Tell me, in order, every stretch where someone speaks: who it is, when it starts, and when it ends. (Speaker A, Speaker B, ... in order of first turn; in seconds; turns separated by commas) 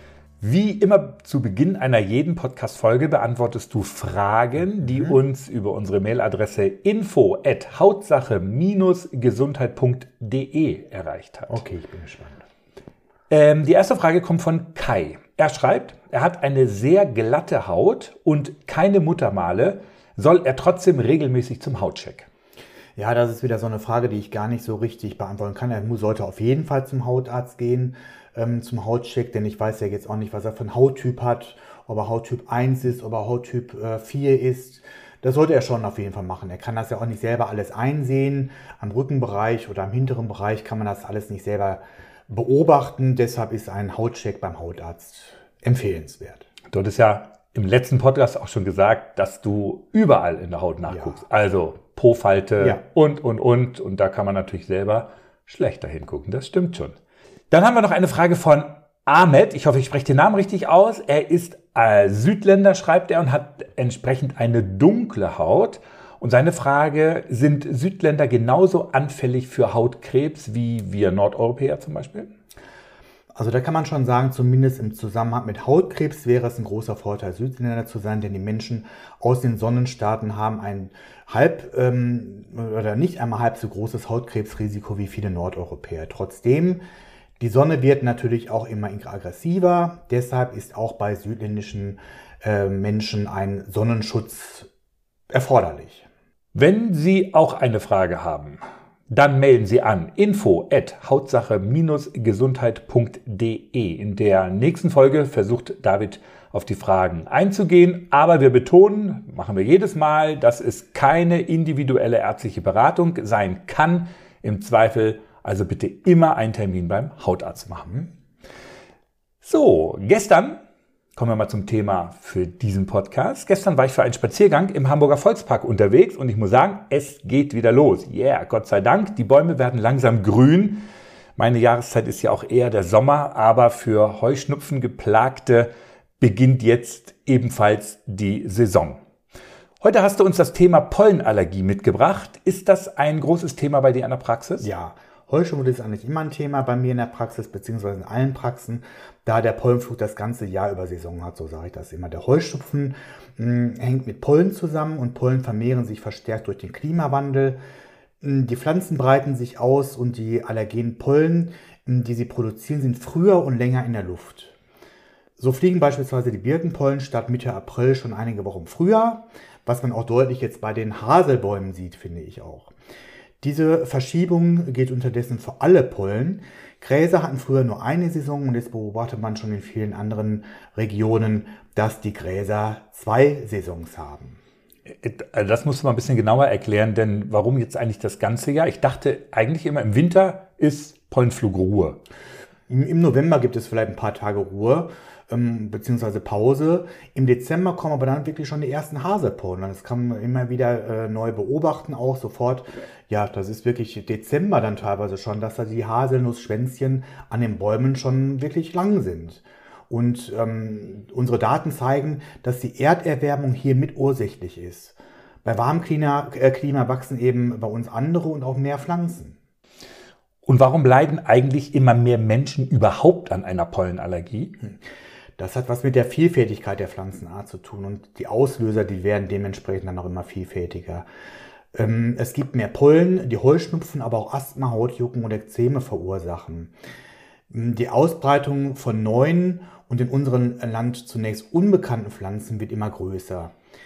Speaker A: 0.4-11.6, Speaker B: 4.8-5.2, Speaker B: 11.5-12.4, Speaker A: 13.3-22.3, Speaker B: 22.9-46.5, Speaker A: 46.7-57.0, Speaker B: 50.9-51.1, Speaker A: 57.5-72.3, Speaker B: 73.3-86.8, Speaker B: 87.4-94.7, Speaker B: 95.3-96.1, Speaker A: 96.5-118.0, Speaker A: 119.4-120.6, Speaker A: 121.2-130.8, Speaker A: 131.4-139.0, Speaker A: 139.8-144.7, Speaker B: 144.6-157.6, Speaker B: 158.2-164.6, Speaker B: 165.4-172.7, Speaker B: 173.4-184.4, Speaker A: 185.0-192.0, Speaker B: 192.7-219.4, Speaker A: 220.4-224.5, Speaker B: 225.4-231.1, Speaker B: 231.7-236.7, Speaker B: 237.5-243.5